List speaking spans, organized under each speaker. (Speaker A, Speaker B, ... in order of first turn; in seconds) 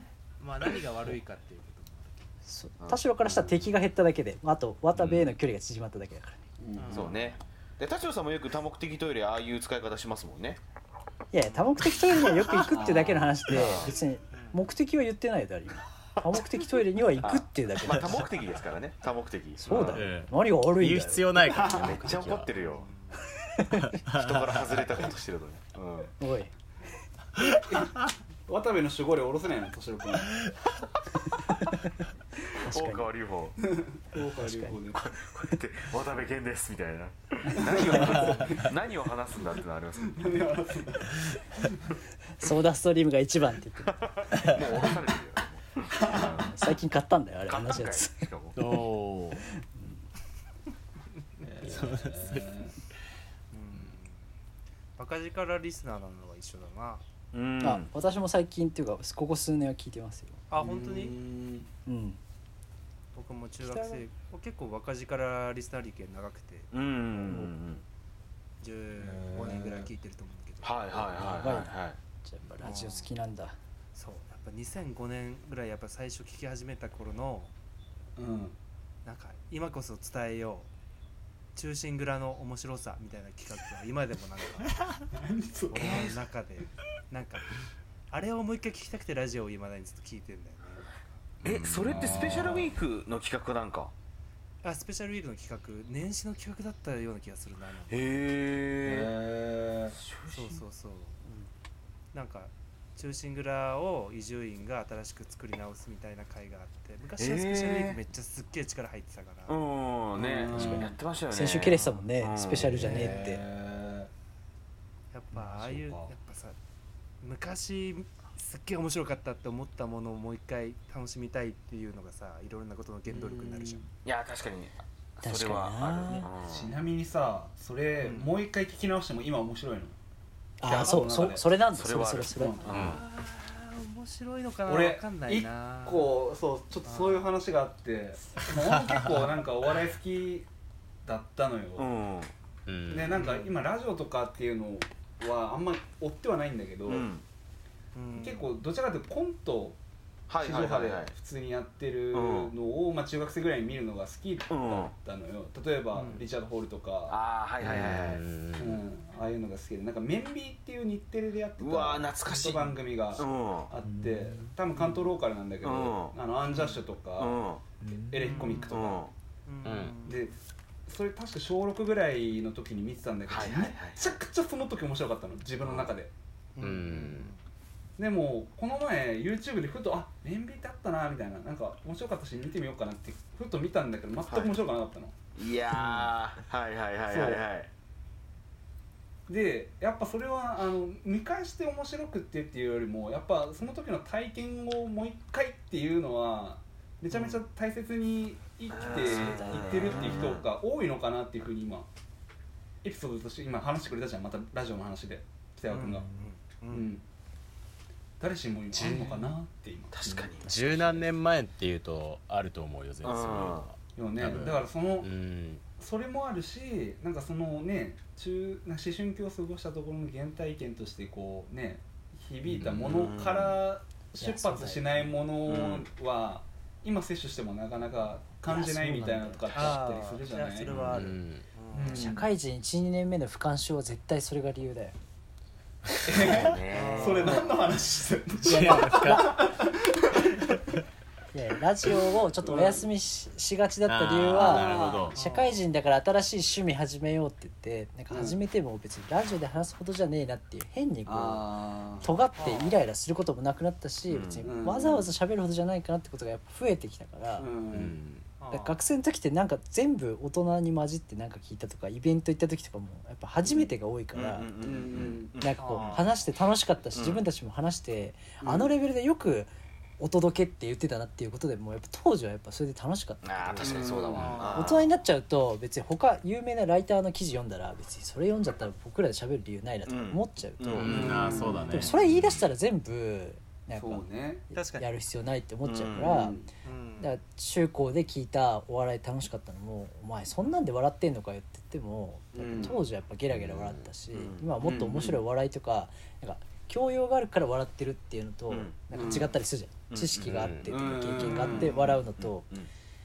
Speaker A: 0.4-2.4, 6.8-7.4, 11.4-11.8, 22.5-23.3, 53.5-54.2, 55.0-57.0, 60.5-61.2, 63.1-66.7, 68.6-71.1, 72.6-73.1, 73.9-77.5, 79.0-80.7, 81.5-85.0, 85.7-87.6, 88.1-91.2, 94.6-98.1, 100.3-101.2, 102.1-109.6, 115.1-116.6, 117.2-123.9, 128.0-128.4, 132.7-136.2, 136.8-137.3, 143.1-143.5, 147.9-148.5, 155.9-156.2, 166.6-166.8, 168.2-168.8, 169.4-170.2, 176.6-177.4, 185.7-186.1, 197.1-197.4, 205.7-206.9, 229.5-232.1, 236.7-237.5, 245.1-245.6, 252.3-252.8, 258.4-258.8, 265.6-266.1, 274.1-274.7, 284.5-284.9, 286.6-287.1, 301.2-301.7
Speaker B: 2.4-6.4, 11.3-18.2, 19.6-21.6, 23.5-23.9, 26.2-26.5, 32.5-33.1, 34.2-34.8, 42.4-44.9, 46.1-48.2, 49.6-50.0, 57.6-60.4, 61.9-62.2, 63.6-64.0, 67.3-67.5, 71.2-71.7, 72.2-73.5, 110.5-113.4, 125.2-126.3, 130.6-132.6, 163.8-165.0, 167.8-168.6, 199.1-200.2, 224.1-225.1, 228.4-229.8, 231.9-234.9, 237.2-237.6, 238.5-239.3, 241.3-251.4, 252.0-257.5, 258.5-264.5, 265.4-286.3, 287.0-302.5
Speaker C: 2.8-3.6, 6.9-10.6, 13.5-13.9, 17.2-20.0, 21.6-22.9, 24.1-26.1, 32.7-33.6, 34.9-40.4, 43.8-46.6, 47.5-48.6, 57.3-57.9, 66.7-67.8, 70.6-72.0, 85.7-86.2, 91.4-93.9, 97.9-99.1, 99.9-100.6, 107.2-108.0, 109.5-113.0, 124.0-126.7, 131.7-133.0, 141.8-142.3, 146.8-147.2, 150.3-151.1, 152.1-152.5, 154.5-154.9, 157.1-158.2, 161.6-163.7, 165.6-166.2, 167.2-167.6, 168.7-169.1, 173.3-174.2, 175.6-175.9, 184.2-184.5, 185.3-187.7, 198.7-200.5, 209.9-211.0, 213.0-213.7, 222.6-223.6, 225.4-225.9, 230.7-231.0, 236.1-237.4, 254.1-254.5, 264.1-265.9, 266.9-267.2, 273.2-274.9, 279.9-281.2, 285.6-286.2, 294.1-294.5, 298.5-299.1, 299.9-300.6, 301.4-302.7
Speaker D: 4.9-5.3, 19.9-22.5, 23.7-24.9, 48.5-49.4, 51.6-52.6, 91.5-92.2, 132.7-133.0, 138.8-139.2, 142.7-143.3, 157.7-158.8, 169.6-170.0, 176.6-177.3, 208.7-209.2, 210.4-215.7, 222.5-223.1, 230.8-231.4, 238.4-239.4, 243.9-245.2, 257.7-258.2, 280.7-282.5, 293.3-293.9, 300.3-300.7
Speaker E: 6.6-7.1, 12.7-13.3, 21.5-21.9, 27.4-30.4, 33.7-35.0, 37.5-38.8, 40.0-41.8, 46.0-46.3, 51.4-52.7, 60.6-61.7, 69.0-69.9, 78.2-78.6, 85.1-86.2, 91.4-92.7, 98.8-100.0, 110.2-110.9, 112.7-114.1, 115.3-116.1, 123.1-123.8, 126.4-130.0, 130.6-131.4, 132.4-132.7, 134.7-140.5, 141.0-141.9, 142.9-147.1, 148.2-149.8, 150.4-157.2, 158.6-167.4, 168.1-169.1, 170.1-170.3, 170.9-176.1, 178.0-185.2, 187.1-187.4, 189.3-201.9, 202.8-206.1, 206.7-207.0, 208.2-210.4, 213.9-215.1, 215.8-230.8, 231.7-232.2, 236.1-240.7, 242.4-242.8, 244.3-245.1, 248.1-248.4, 251.1-252.1, 254.4-255.1, 257.4-258.0, 264.6-265.3, 268.4-268.7, 273.6-274.5, 280.8-281.9, 283.7-284.4, 286.0-286.5, 292.3-292.8, 294.6-295.2, 298.9-299.4, 300.7-301.9